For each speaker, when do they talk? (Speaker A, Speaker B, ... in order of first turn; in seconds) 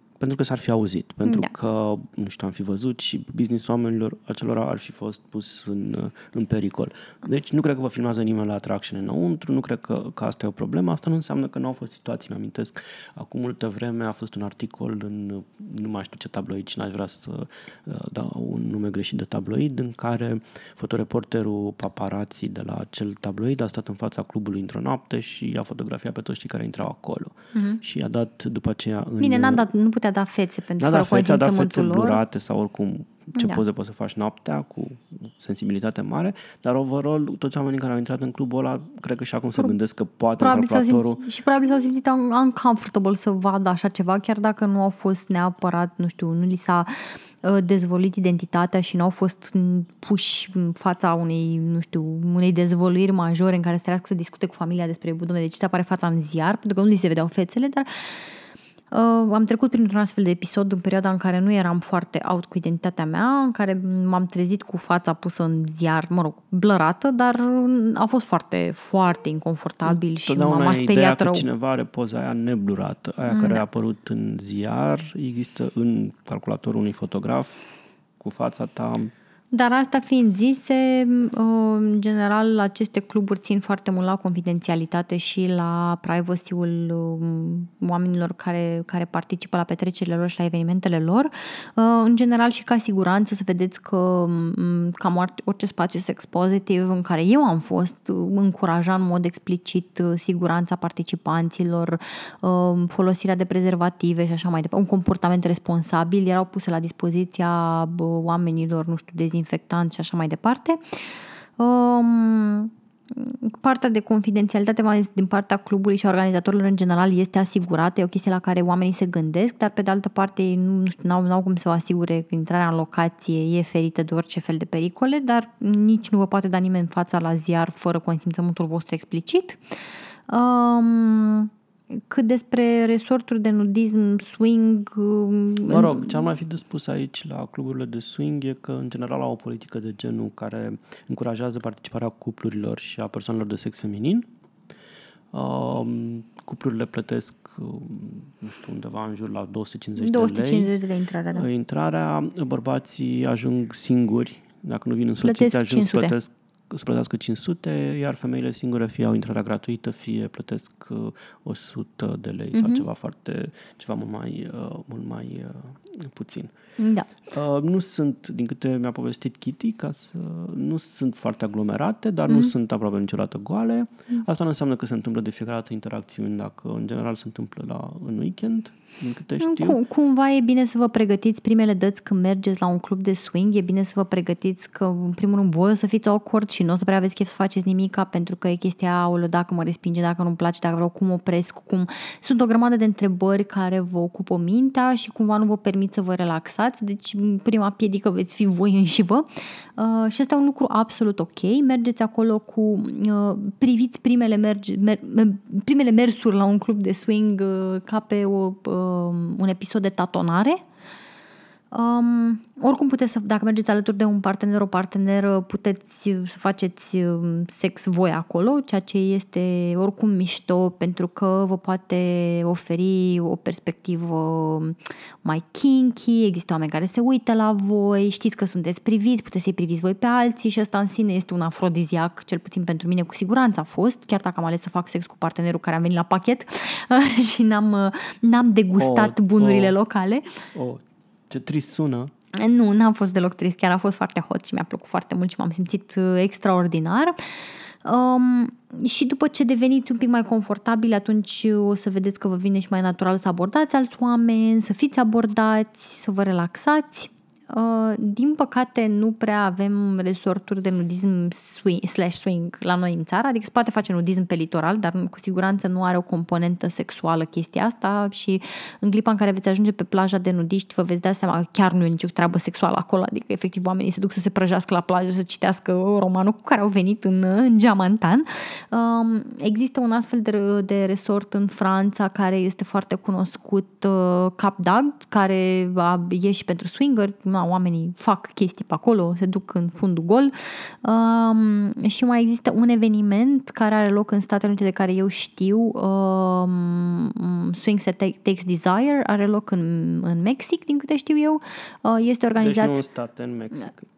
Speaker A: 0.2-29.7, 30.8-41.2, 69.8-77.7, 78.2-79.1, 135.6-144.3, 145.3-150.7, 151.3-166.5, 167.2-179.8, 238.8-239.7, 240.5-242.1, 302.4-303.8
Speaker B: 1.2-1.5, 27.5-27.8, 29.2-32.2, 33.4-33.6, 40.4-58.3, 58.9-71.4, 73.3-73.6, 79.5-110.8, 111.6-129.6, 130.3-136.2, 150.0-151.5, 155.2-156.1, 162.5-162.8, 166.8-167.1, 179.4-210.6, 211.7-240.4, 242.3-302.8